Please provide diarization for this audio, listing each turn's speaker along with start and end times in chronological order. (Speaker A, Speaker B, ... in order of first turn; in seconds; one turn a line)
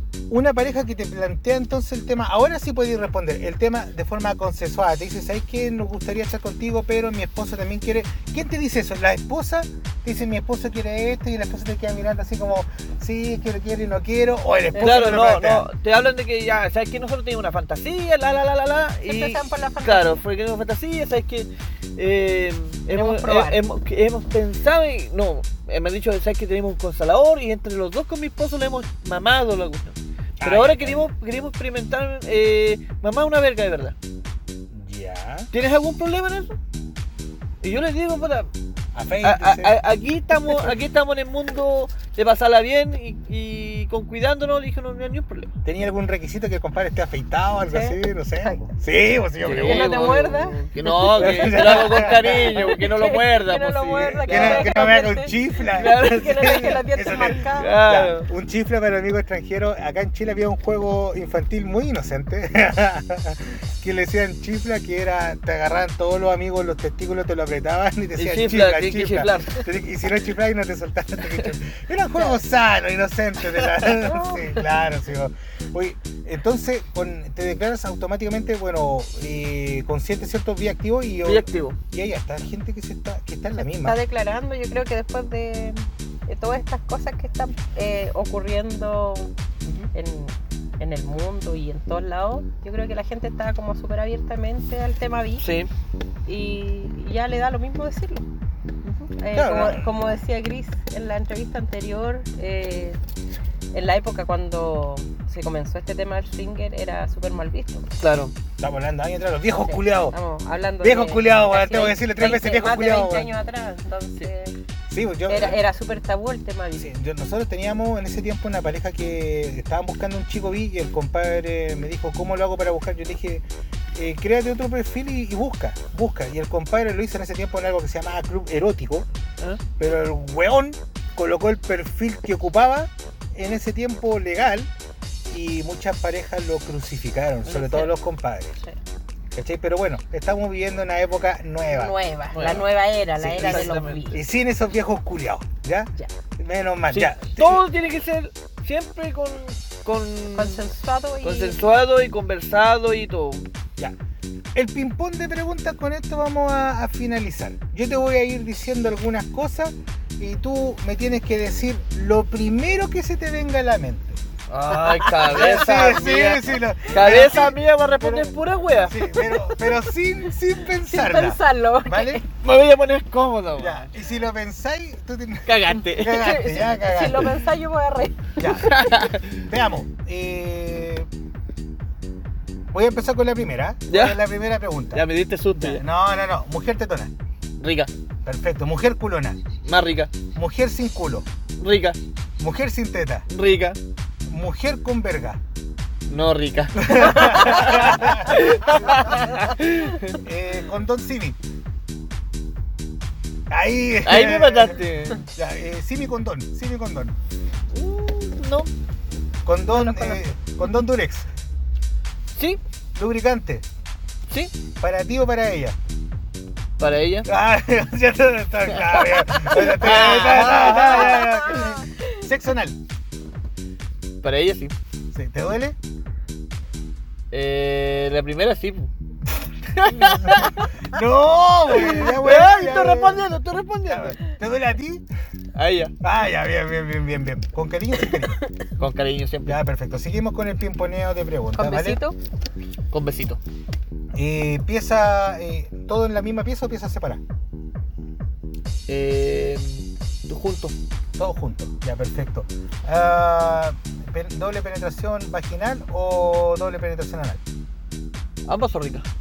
Speaker A: 0.3-15.7
Speaker B: 14.7-15.1
Speaker C: 14.8-34.0
Speaker B: 19.1-20.2
Speaker B: 22.9-23.6
Speaker A: 30.4-31.0
Speaker A: 34.7-35.5
Speaker C: 35.5-36.6
Speaker C: 37.6-38.5
Speaker A: 39.0-39.8
Speaker C: 39.2-45.5
Speaker A: 45.6-50.1
Speaker B: 47.7-48.7
Speaker C: 49.4-54.7
Speaker B: 49.6-57.8
Speaker A: 51.1-52.7
Speaker A: 54.3-84.0
Speaker C: 55.8-56.8
Speaker C: 57.3-58.3
Speaker C: 68.2-69.6
Speaker B: 73.9-74.6
Speaker C: 81.2-81.8
Speaker B: 83.8-89.3
Speaker B: 89.9-95.5
Speaker C: 95.4-95.7
Speaker B: 96.3-98.3
Speaker C: 98.8-99.1
Speaker B: 99.2-103.0
Speaker A: 99.3-99.9
Speaker B: 103.7-107.8
Speaker C: 108.0-108.3
Speaker A: 108.6-110.2
Speaker B: 109.5-114.6
Speaker A: 110.8-113.3
Speaker A: 114.9-115.6
Speaker B: 115.3-116.9
Speaker A: 116.8-129.1
Speaker A: 129.8-134.7
Speaker A: 135.3-138.5
Speaker C: 137.5-137.9
Speaker A: 139.3-147.6
Speaker B: 141.7-144.2
Speaker C: 142.3-142.6
Speaker C: 143.4-144.2
Speaker C: 146.9-150.6
Speaker B: 150.3-151.6
Speaker C: 151.2-153.5
Speaker A: 154.5-164.2
Speaker C: 164.5-169.1
Speaker B: 164.8-165.9
Speaker A: 165.1-172.2
Speaker B: 169.2-169.7
Speaker B: 170.9-172.2
Speaker C: 172.4-173.9
Speaker A: 173.6-177.3
Speaker C: 175.5-176.6
Speaker B: 176.3-178.7
Speaker A: 178.4-181.1
Speaker C: 178.6-179.2
Speaker A: 182.7-187.1
Speaker C: 183.9-184.2
Speaker C: 184.9-185.8
Speaker C: 187.6-187.9
Speaker A: 188.2-189.4
Speaker C: 189.7-190.1
Speaker A: 190.3-191.3
Speaker C: 191.6-192.0
Speaker A: 192.4-193.2
Speaker C: 193.3-193.8
Speaker A: 194.3-195.4
Speaker C: 196.1-200.2
Speaker A: 196.8-198.4
Speaker A: 200.2-201.4
Speaker A: 203.5-207.2
Speaker C: 204.1-205.2
Speaker C: 207.7-208.7
Speaker A: 209.4-211.3
Speaker B: 209.8-210.2
Speaker A: 212.9-213.7
Speaker A: 214.8-215.8
Speaker C: 216.8-217.3
Speaker A: 217.2-222.8
Speaker C: 218.9-221.6
Speaker B: 221.1-221.7
Speaker C: 224.2-224.7
Speaker A: 225.1-225.8
Speaker C: 227.3-228.9
Speaker C: 229.8-230.7
Speaker A: 229.9-233.3
Speaker C: 231.8-234.2
Speaker A: 233.9-235.1
Speaker C: 235.6-235.9
Speaker A: 236.0-238.4
Speaker C: 238.8-239.6
Speaker A: 239.5-242.0
Speaker B: 241.6-242.2
Speaker C: 242.9-243.4
Speaker A: 244.1-247.2
Speaker C: 248.9-250.7
Speaker A: 251.2-257.4
Speaker C: 258.5-259.1